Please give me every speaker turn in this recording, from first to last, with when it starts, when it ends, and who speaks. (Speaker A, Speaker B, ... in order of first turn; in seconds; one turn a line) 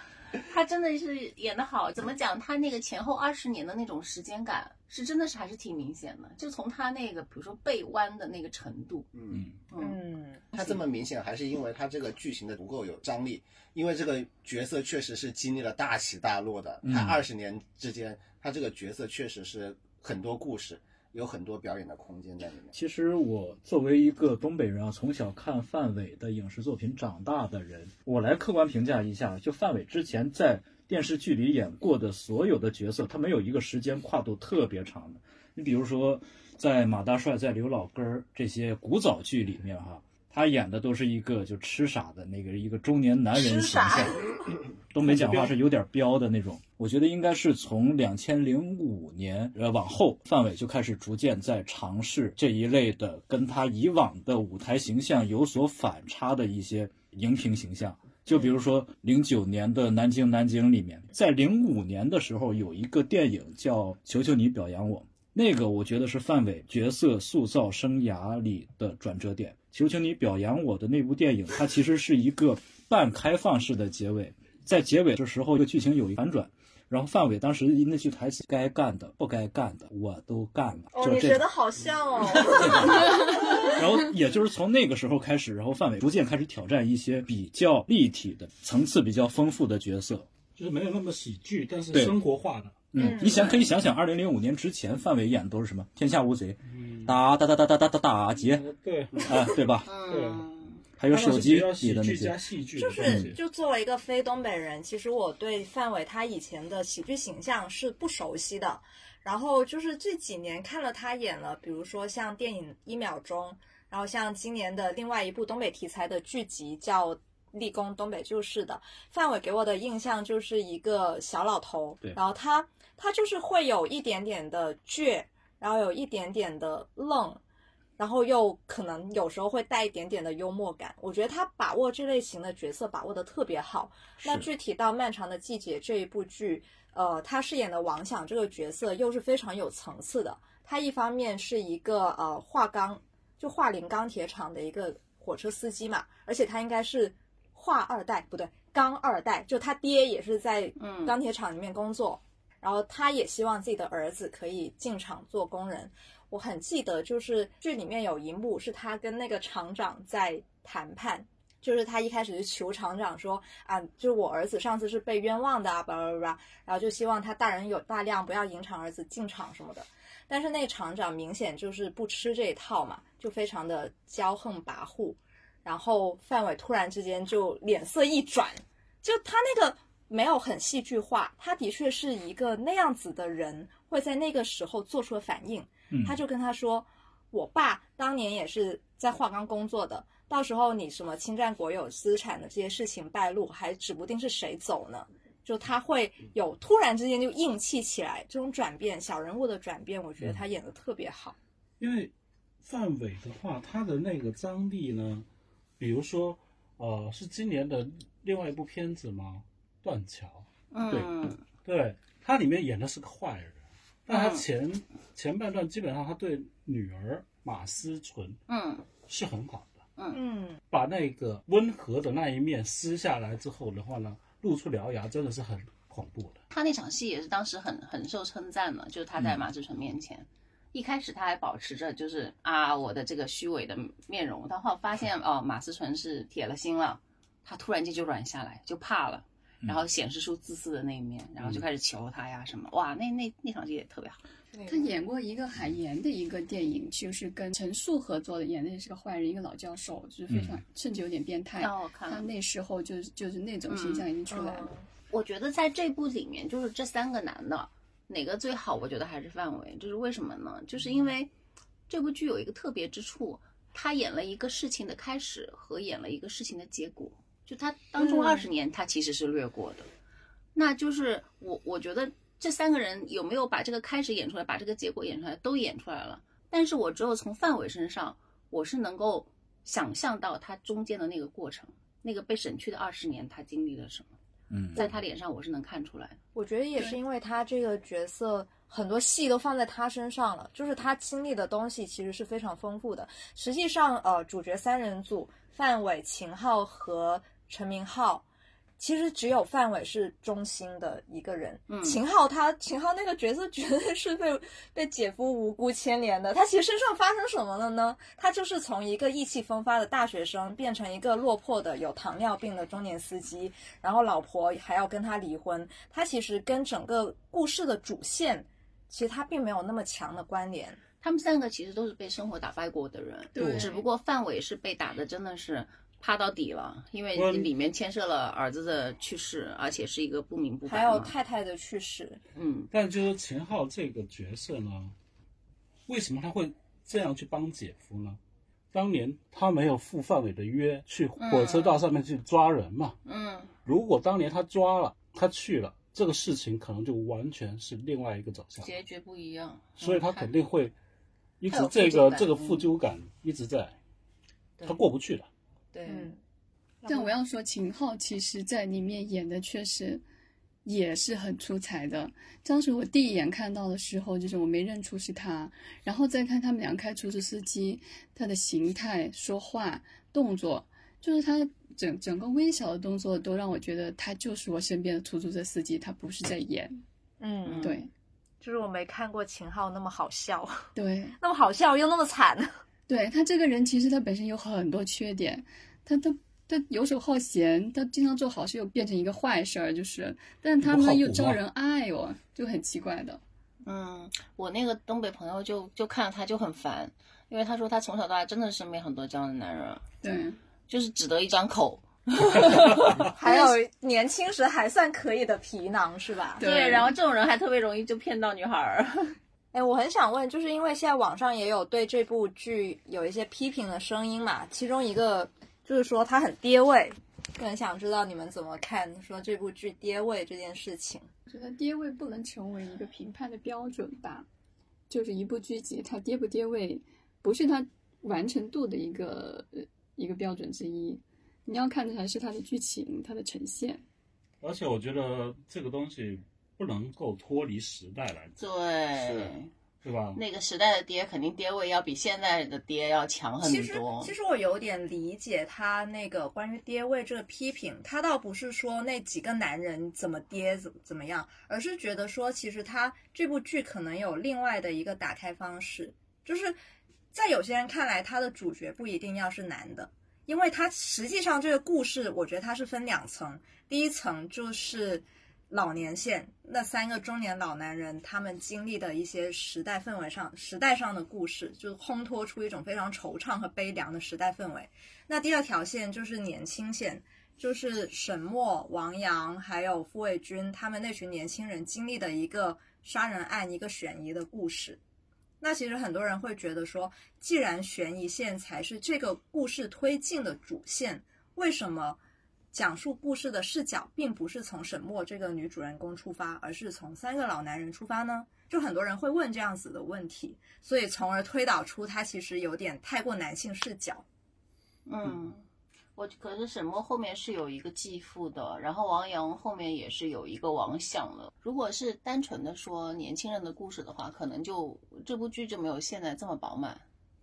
Speaker A: 0.4-9.1
Speaker B: 9.1-9.4
Speaker A: 9.7-10.0
Speaker C: 9.8-10.4
Speaker B: 10.5-22.7
Speaker A: 10.5-10.8
Speaker D: 16.8-17.2
Speaker D: 22.7-44.2
Speaker C: 43.3-44.3
Speaker D: 44.9-81.5
Speaker E: 45.0-45.5
Speaker C: 80.9-83.8
Speaker D: 82.5-90.3
Speaker E: 90.5-93.4
Speaker D: 91.9-92.2
Speaker D: 92.9-98.7
Speaker C: 93.0-93.5
Speaker E: 96.7-97.2
Speaker E: 98.4-99.4
Speaker D: 99.2-99.9
Speaker A: 99.8-100.8
Speaker E: 100.1-100.5
Speaker D: 101.0-102.4
Speaker E: 101.1-103.4
Speaker C: 102.8-127.4
Speaker D: 103.0-103.3
Speaker C: 128.0-201.3
Speaker A: 150.8-151.1
Speaker D: 185.9-186.2
Speaker E: 201.8-205.3
Speaker E: 205.8-210.5
Speaker A: 210.7-211.4
Speaker E: 211.6-218.4
Speaker A: 214.1-214.4
Speaker A: 218.5-218.9
Speaker E: 219.0-219.8
Speaker C: 220.1-220.6
Speaker E: 220.7-226.4
Speaker A: 226.5-244.2
Speaker C: 244.5-244.9
Speaker F: 244.7-254.7
Speaker D: 250.3-250.6
Speaker A: 251.6-252.3
Speaker A: 253.7-254.3
Speaker C: 254.3-254.8
Speaker A: 255.1-261.3
Speaker A: 261.9-269.9
Speaker C: 268.0-268.4
Speaker A: 270.5-284.1
Speaker D: 284.5-284.8
Speaker A: 284.8-286.2
Speaker C: 286.3-298.2
Speaker C: 298.8-320.8
Speaker A: 301.7-302.0
Speaker A: 321.0-331.1
Speaker F: 323.3-323.8
Speaker E: 323.4-323.7
Speaker E: 327.1-327.5
Speaker C: 330.7-332.2
Speaker A: 332.3-332.7
Speaker E: 332.7-334.9
Speaker E: 335.9-338.2
Speaker E: 338.7-343.0
Speaker A: 341.2-341.8
Speaker A: 343.0-343.5
Speaker E: 343.6-348.7
Speaker A: 348.6-350.3
Speaker E: 349.8-350.7
Speaker E: 351.4-353.8
Speaker A: 351.5-352.7
Speaker E: 354.6-355.3
Speaker A: 355.7-356.1
Speaker C: 355.9-356.2
Speaker C: 356.8-357.1
Speaker F: 356.9-360.0
Speaker F: 360.6-376.8
Speaker C: 377.2-377.8
Speaker A: 377.4-377.8
Speaker F: 377.6-377.9
Speaker C: 378.4-382.6
Speaker F: 380.8-381.1
Speaker F: 382.9-393.2
Speaker E: 390.6-391.4
Speaker A: 393.6-399.9
Speaker F: 400.0-400.4
Speaker A: 400.7-403.4
Speaker C: 403.1-406.4
Speaker F: 406.4-406.9
Speaker A: 406.4-409.1
Speaker C: 409.5-421.1
Speaker F: 421.3-424.3
Speaker F: 424.9-433.8
Speaker E: 434.4-438.4
Speaker A: 438.4-439.5
Speaker E: 439.0-439.3
Speaker E: 439.8-440.2
Speaker A: 440.1-444.1
Speaker C: 443.4-456.6
Speaker C: 457.1-484.8
Speaker C: 485.4-492.0
Speaker C: 492.5-504.0
Speaker A: 504.9-505.4
Speaker A: 506.0-516.8